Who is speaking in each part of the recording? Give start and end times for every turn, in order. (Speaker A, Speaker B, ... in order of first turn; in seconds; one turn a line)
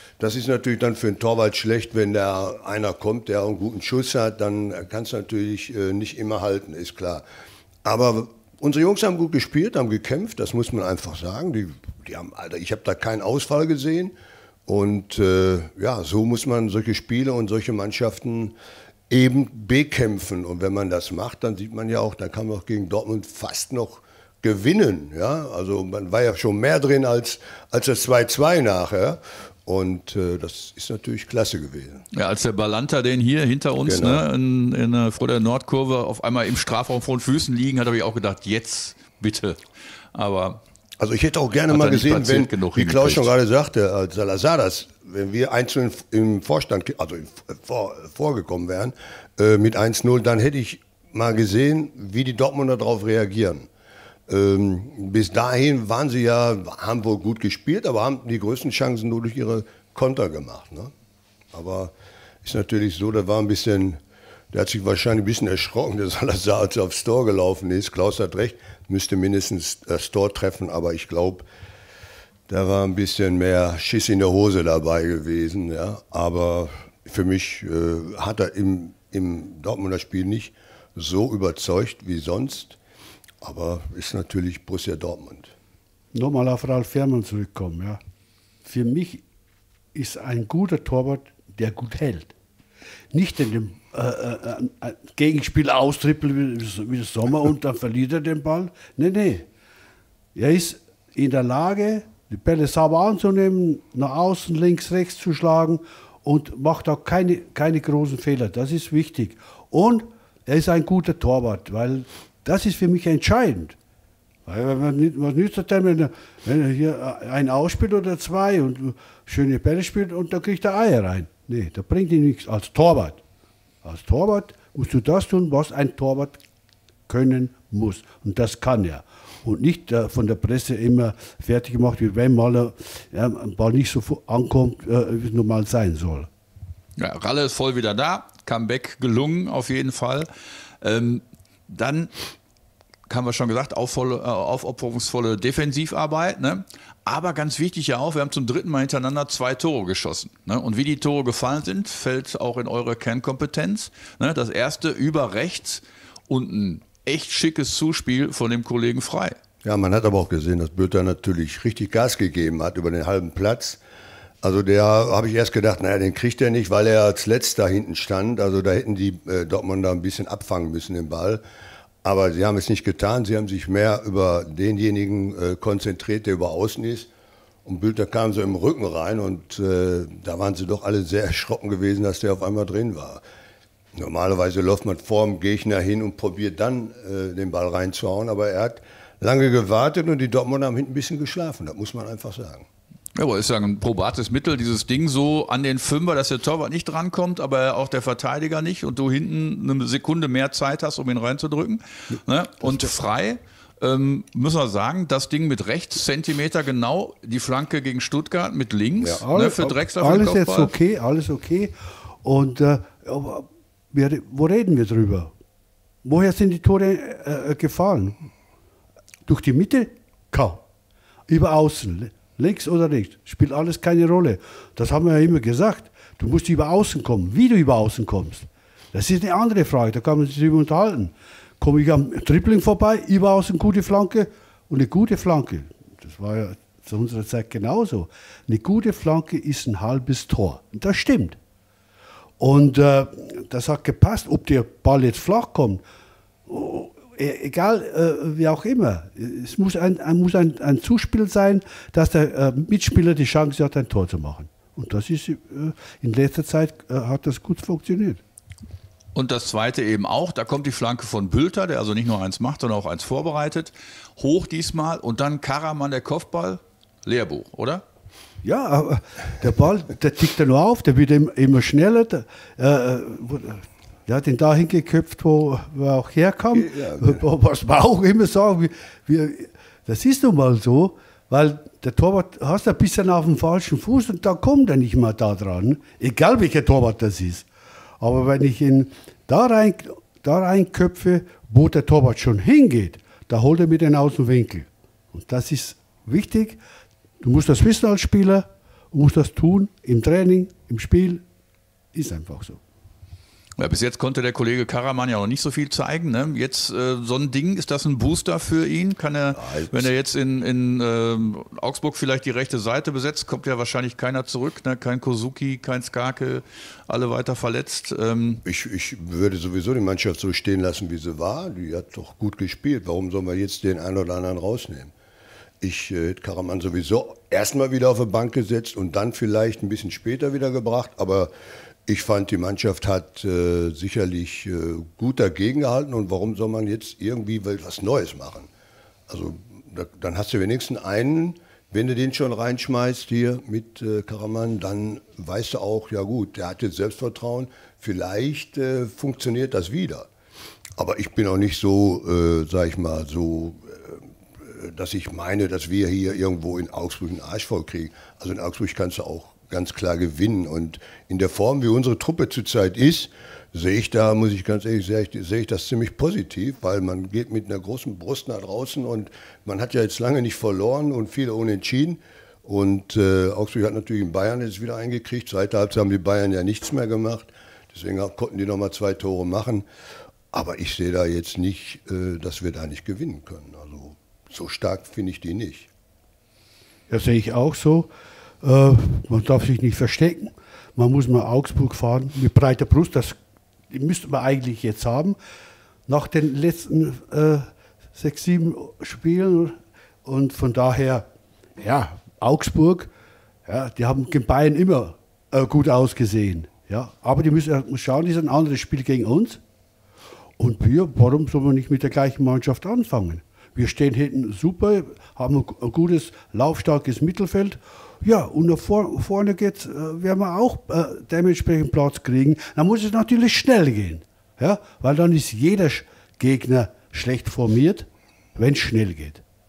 Speaker A: 0.2-7.3
Speaker A: 7.8-14.2
Speaker A: 14.7-18.6
Speaker A: 19.1-32.0
Speaker B: 32.1-39.6
Speaker A: 33.9-34.2
Speaker B: 40.1-40.6
Speaker A: 41.0-53.7
Speaker B: 41.7-43.3
Speaker A: 54.3-60.9
Speaker A: 61.5-61.9
Speaker A: 62.4-64.0
Speaker A: 64.5-71.5
Speaker A: 72.5-82.8
Speaker A: 83.4-85.5
Speaker C: 86.1-88.0
Speaker C: 88.7-89.2
Speaker C: 89.9-92.3
Speaker C: 93.1-99.5
Speaker C: 100.3-113.8
Speaker C: 114.5-123.2
Speaker C: 123.8-126.4
Speaker C: 127.1-136.3
Speaker B: 137.0-140.3
Speaker B: 140.8-142.1
Speaker B: 143.1-159.3
Speaker A: 159.6-163.8
Speaker A: 164.4-171.4
Speaker A: 172.0-177.1
Speaker A: 177.7-183.2
Speaker A: 183.9-192.7
Speaker B: 193.2-210.7
Speaker C: 209.2-215.3
Speaker C: 216.0-218.3
Speaker C: 219.2-220.6
Speaker C: 221.3-241.4
Speaker C: 242.4-245.8
Speaker C: 246.5-258.2
Speaker B: 259.1-267.8
Speaker C: 268.4-287.5
Speaker A: 276.6-277.2
Speaker C: 288.0-296.6
Speaker C: 297.2-301.2
Speaker C: 301.9-302.6
Speaker B: 303.6-318.4
Speaker A: 309.4-309.9
Speaker A: 318.4-324.9
Speaker A: 325.6-331.3
Speaker A: 331.9-338.5
Speaker A: 339.1-350.1
Speaker A: 350.8-379.7
Speaker A: 380.3-385.7
Speaker C: 386.9-387.9
Speaker C: 388.4-393.2
Speaker C: 393.7-395.2
Speaker C: 395.9-401.1
Speaker C: 401.6-402.9
Speaker C: 403.5-409.4
Speaker C: 410.4-429.2